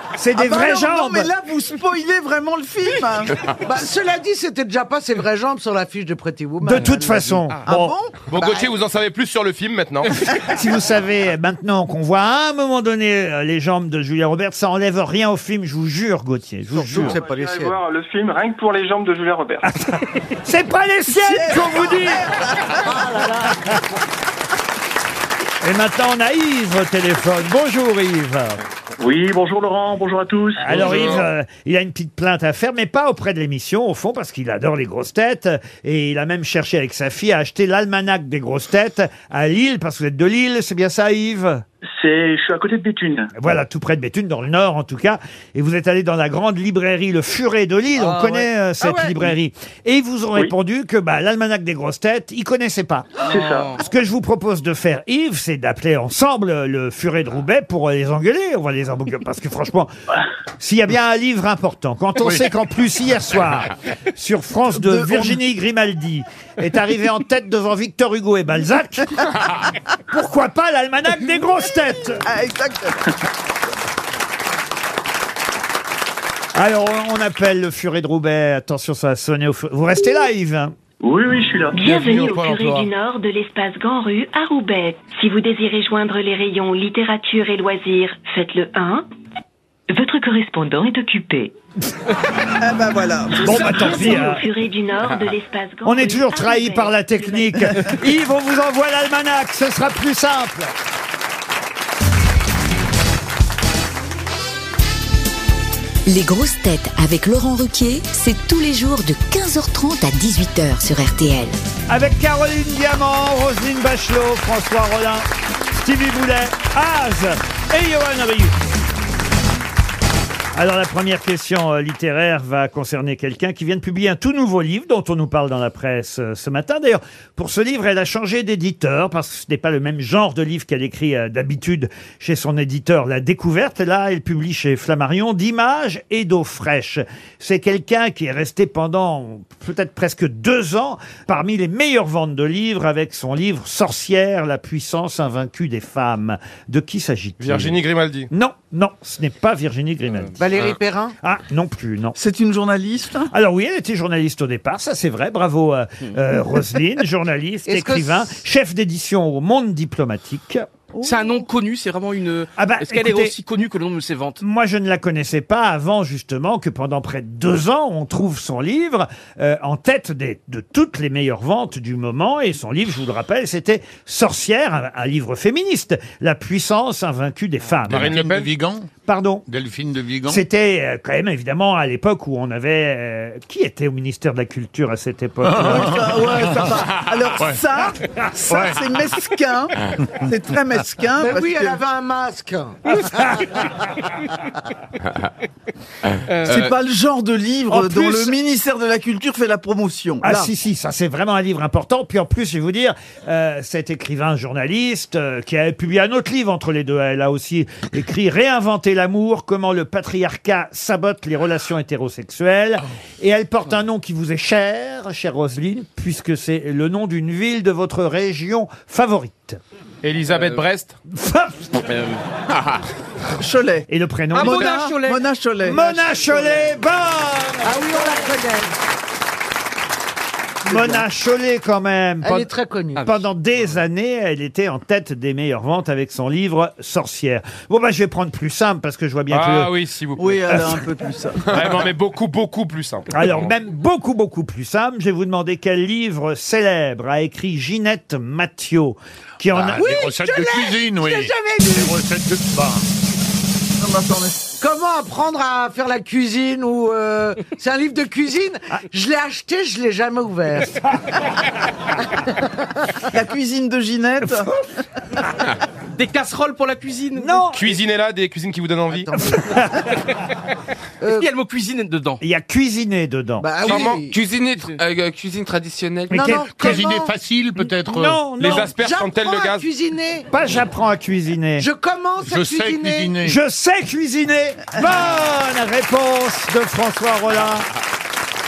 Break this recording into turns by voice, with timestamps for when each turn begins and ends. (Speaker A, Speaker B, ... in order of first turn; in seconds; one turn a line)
Speaker A: 0.2-1.3
Speaker B: 0.3-3.3
Speaker C: 3.6-7.4
Speaker A: 6.6-7.9
Speaker B: 7.7-8.2
Speaker D: 8.3-10.2
Speaker A: 10.5-17.2
Speaker C: 16.7-17.8
Speaker E: 17.0-19.6
Speaker A: 19.6-22.2
Speaker B: 21.1-22.9
Speaker C: 22.8-23.7
Speaker A: 25.6-28.6
Speaker F: 29.0-30.6
Speaker A: 30.6-41.6
Speaker F: 42.0-43.3
Speaker A: 43.3-59.9
Speaker C: 48.0-49.2
Speaker E: 53.3-53.7
Speaker G: 53.3-53.8
Speaker A: 60.6-69.2
Speaker B: 64.7-65.4
Speaker A: 70.1-72.2
Speaker B: 72.2-73.0
Speaker A: 76.5-80.7
Speaker F: 81.2-81.5
Speaker H: 81.7-89.1
Speaker I: 82.3-82.6
Speaker H: 89.9-91.5
Speaker B: 92.6-93.5
Speaker H: 93.3-97.9
Speaker A: 93.4-94.4
Speaker G: 93.8-94.2
Speaker I: 95.0-95.3
Speaker A: 95.8-100.7
Speaker J: 106.0-111.5
Speaker A: 111.9-118.5
Speaker A: 120.5-147.8
Speaker D: 147.4-148.3
Speaker A: 148.3-150.4
Speaker C: 150.4-151.2
Speaker A: 151.2-152.2
Speaker B: 152.2-153.3
Speaker A: 153.3-160.7
Speaker C: 157.7-158.3
Speaker B: 160.9-161.5
Speaker G: 161.0-164.4
Speaker A: 162.6-163.3
Speaker A: 164.4-178.2
Speaker K: 177.9-178.9
Speaker D: 177.9-178.5
Speaker A: 179.1-179.4
Speaker K: 179.5-180.4
Speaker A: 180.3-186.0
Speaker K: 185.4-187.6
Speaker B: 185.6-191.8
Speaker K: 188.5-188.8
Speaker C: 191.2-193.6
Speaker G: 196.2-196.7
Speaker B: 196.4-200.5
Speaker A: 197.7-198.3
Speaker A: 200.2-219.6
Speaker D: 220.0-220.9
Speaker A: 221.1-221.8
Speaker I: 222.5-222.8
Speaker B: 223.3-225.9
Speaker A: 223.9-224.9
Speaker G: 224.3-225.2
Speaker A: 225.6-228.1
Speaker C: 227.6-228.7
Speaker A: 230.7-239.7
Speaker C: 232.2-233.1
Speaker D: 239.3-240.6
Speaker B: 240.2-241.6
Speaker A: 240.5-240.8
Speaker D: 241.5-243.5
Speaker A: 243.1-249.8
Speaker K: 249.5-252.8
Speaker C: 249.8-252.0
Speaker B: 253.8-254.4
Speaker C: 254.6-260.8
Speaker B: 263.1-264.5
Speaker G: 265.9-267.4
Speaker A: 267.1-267.6
Speaker D: 267.5-269.1
Speaker A: 269.1-269.9
Speaker C: 271.0-271.3
Speaker G: 271.1-272.2
Speaker A: 272.2-273.7
Speaker C: 273.4-274.2
Speaker I: 273.6-276.3
Speaker A: 276.1-276.8
Speaker C: 276.1-277.1
Speaker K: 276.5-278.2
Speaker A: 277.8-278.7
Speaker D: 278.4-279.6
Speaker C: 278.5-280.3
Speaker A: 280.3-281.6
Speaker C: 281.6-283.1
Speaker K: 282.2-283.4
Speaker A: 283.2-287.7